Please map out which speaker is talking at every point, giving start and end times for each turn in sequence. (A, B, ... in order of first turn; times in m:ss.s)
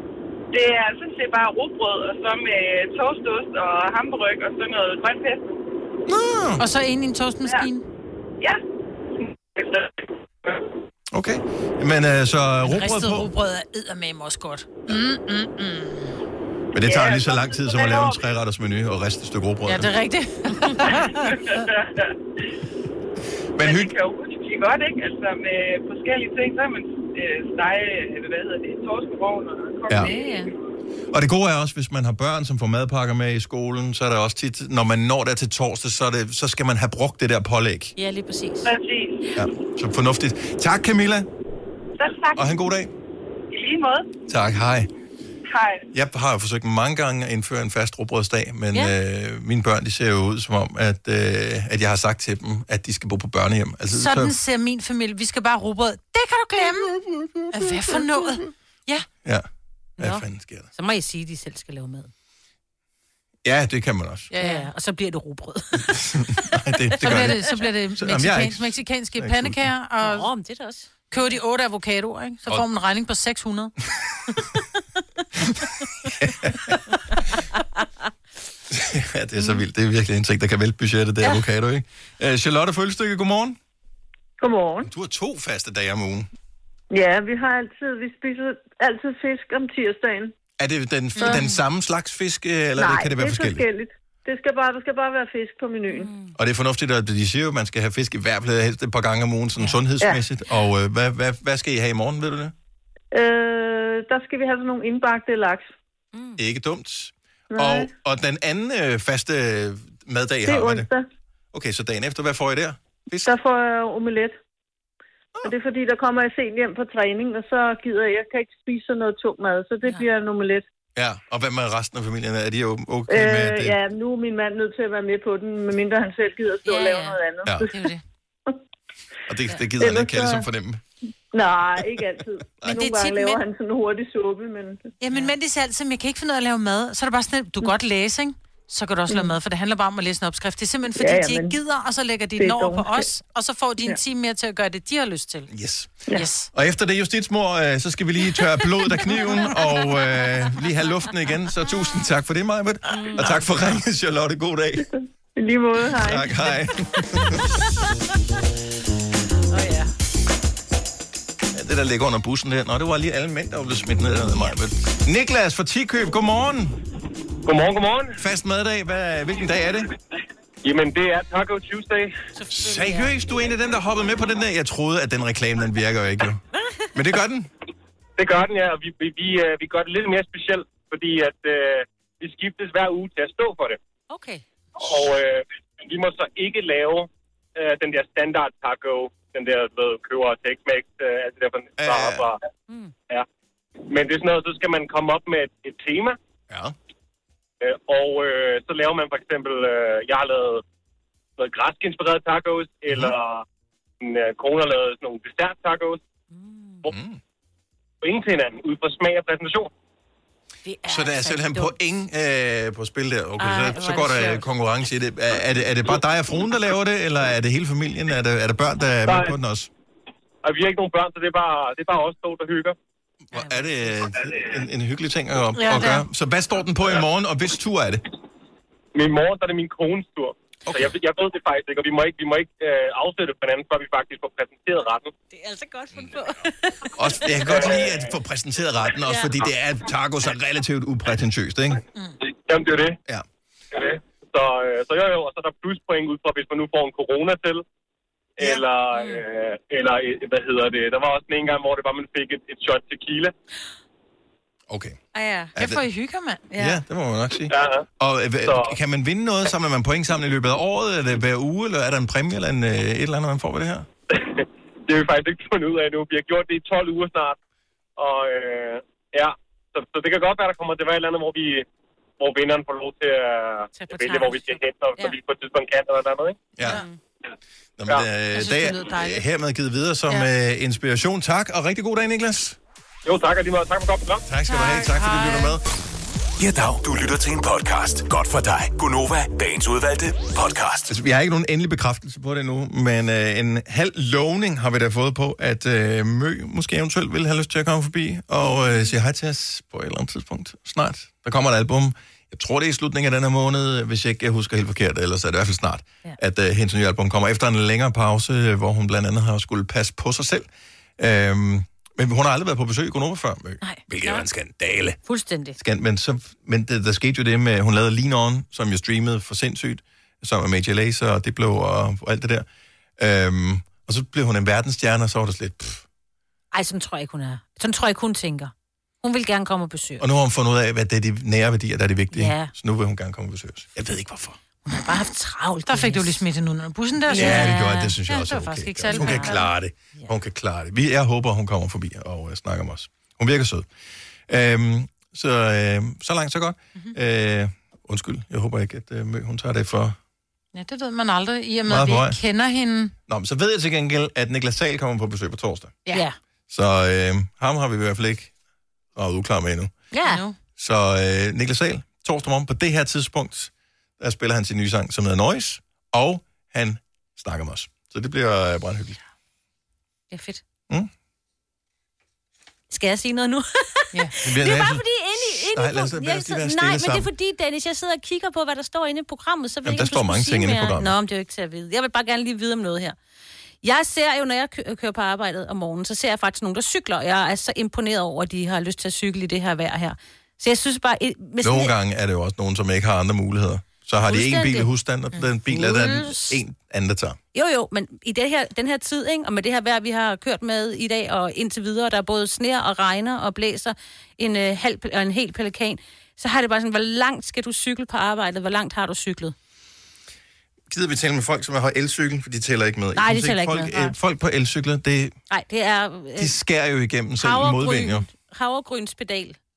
0:00.5-0:05.6 A
0:06.1-0:06.6 B
0:06.6-0:07.8 C
0:09.6-0:09.8 A
0:11.1-0:13.3 B
0:12.7-0:16.2 C
0:16.7-0:19.9 B
0:16.8-0:18.2 A
0:19.7-0:21.4 C
0:21.5-0:22.0 A
0:23.6-0:23.9 B
0:23.6-0:30.5 A
0:29.9-0:30.1 B
0:30.0-0:30.5 D
0:31.1-0:38.0 B
0:38.0-0:38.7 D
0:38.6-0:39.3 A
0:39.4-0:41.3 B
0:42.0-0:42.7 A
0:42.4-0:42.9 B
0:43.5-0:44.1 A
0:44.3-0:44.9 B
0:45.5-0:45.9 A
0:45.9-0:54.4 B
0:53.9-0:56.9 C
0:57.0-0:58.0 B
0:57.5-0:59.1 C
1:00.0-1:00.7 B
1:00.0-1:02.1 D
1:03.4-1:04.3 B
1:04.3-1:04.7 C
1:04.4-1:06.2 D
1:05.9-1:09.7 B
1:07.0-1:07.6 D
1:07.0-1:10.3 C
1:10.0-1:11.4 D
1:11.1-1:13.7 C
1:16.2-1:16.8 B
1:18.7-1:23.6 B
1:24.4-1:24.9 E
1:24.8-1:26.3 B
1:26.9-1:30.3 E
1:30.6-1:33.6 B
1:31.2-1:31.5 C
1:32.8-1:36.1 E
1:35.9-1:36.3 D
1:36.4-1:42.5 B
1:43.1-1:45.7 E
1:46.1-1:46.4 D
1:46.4-1:50.9 B
1:47.5-1:47.9 E
1:50.4-1:51.1 E
1:51.5-1:53.3 B
1:53.3-1:54.4 E
1:55.4-2:00.6 E
2:01.0-2:03.8 B
2:03.1-2:07.7 E
2:06.6-2:07.2 D
2:07.6-2:08.0 C
2:09.3-2:10.8 B
2:09.8-2:10.5 E
2:11.3-2:14.9 E
2:12.6-2:13.4 C
2:15.0-2:25.5 C
2:21.0-2:21.6 E
2:22.4-2:23.1 E
2:25.5-2:34.9 B
2:26.1-2:26.5 C
2:32.9-2:33.3 D
2:35.4-2:36.4 E
2:36.0-2:37.4 B
2:39.5-2:39.9 D
2:41.5-2:46.8 B
2:47.4-2:48.2 F
2:48.2-2:49.9 B
2:50.6-2:52.1 F
2:52.4-2:53.1 D
2:52.5-2:56.4 B
2:56.9-2:57.5 B
2:58.2-3:03.8 F
3:04.1-3:04.4 D
3:04.8-3:12.4 F
3:11.8-3:12.3 B
3:13.9-3:16.2 F
3:16.5-3:16.8 B
3:17.6-3:20.6 F
3:21.4-3:23.4 F
3:22.9-3:23.1 B
3:24.0-3:26.0 F
3:26.3-3:26.8 D
3:26.8-3:27.2 B
3:28.0-3:29.7 F
3:30.6-3:31.7 D
3:30.9-3:39.7 B
3:33.4-3:34.5 D
3:39.0-3:39.4 F
3:40.4-3:42.8 F
3:43.3-3:48.0 B
3:43.4-3:43.7 D
3:45.6-3:46.1 C
3:48.9-3:55.1 F
3:50.7-3:50.9 B
3:55.3-3:57.4 D
3:57.0-4:01.8 B
3:57.5-3:58.1 F
3:59.0-3:59.4 D
4:02.3-4:03.0 F
4:03.7-4:07.6 F
4:08.4-4:13.3 F
4:08.9-4:09.2 D
4:14.7-4:15.0 B
4:15.2-4:15.5 D
4:15.6-4:15.8 B
4:15.6-4:16.4 C
4:16.5-4:16.8 D
4:16.6-4:23.9 B
4:17.5-4:17.8 F
4:18.4-4:18.8 F
4:24.1-4:27.4 F
4:28.0-4:31.7 F
4:32.2-4:36.4 F
4:33.8-4:35.1 D
4:36.6-4:36.8 B
4:36.6-4:37.0 D
4:37.8-4:42.6 B
4:38.3-4:39.2 C
4:43.0-4:44.2 F
4:44.3-4:45.6 B
4:44.5-4:45.6 C
4:46.4-4:50.9 G
4:50.9-5:15.0 B
5:13.6-5:14.2 D
5:15.1-5:15.6 D
5:15.6-5:22.5 B
5:23.0-5:25.8 B
5:26.5-5:28.5 D
5:29.0-5:30.1 D
5:30.0-5:34.4 B
5:32.1-5:32.5 D
5:34.7-5:36.2 D
5:35.7-5:39.4 C
5:37.1-5:38.0 D
5:37.1-5:43.7 B
5:38.9-5:39.4 D
5:44.3-5:50.0 B
5:50.5-5:52.9 C
5:51.7-5:52.2 B
5:53.1-5:55.8 B
5:56.5-5:58.3 B
5:59.0-5:59.7 B
5:59.9-6:00.2 D
6:00.0-6:00.4 C
6:00.6-6:09.0 B
6:10.1-6:10.4 D
6:12.7-6:23.0 D
6:14.2-6:17.1 B
6:19.6-6:21.0 B
6:23.6-6:31.7 D
6:31.4-6:37.2 B
6:34.0-6:34.7 D
6:35.5-6:36.4 D
6:37.3-6:49.4 D
6:50.7-6:55.2 B
6:53.0-6:53.9 D
6:55.3-6:56.3 D
6:56.2-6:58.1 B
6:57.2-6:59.4 D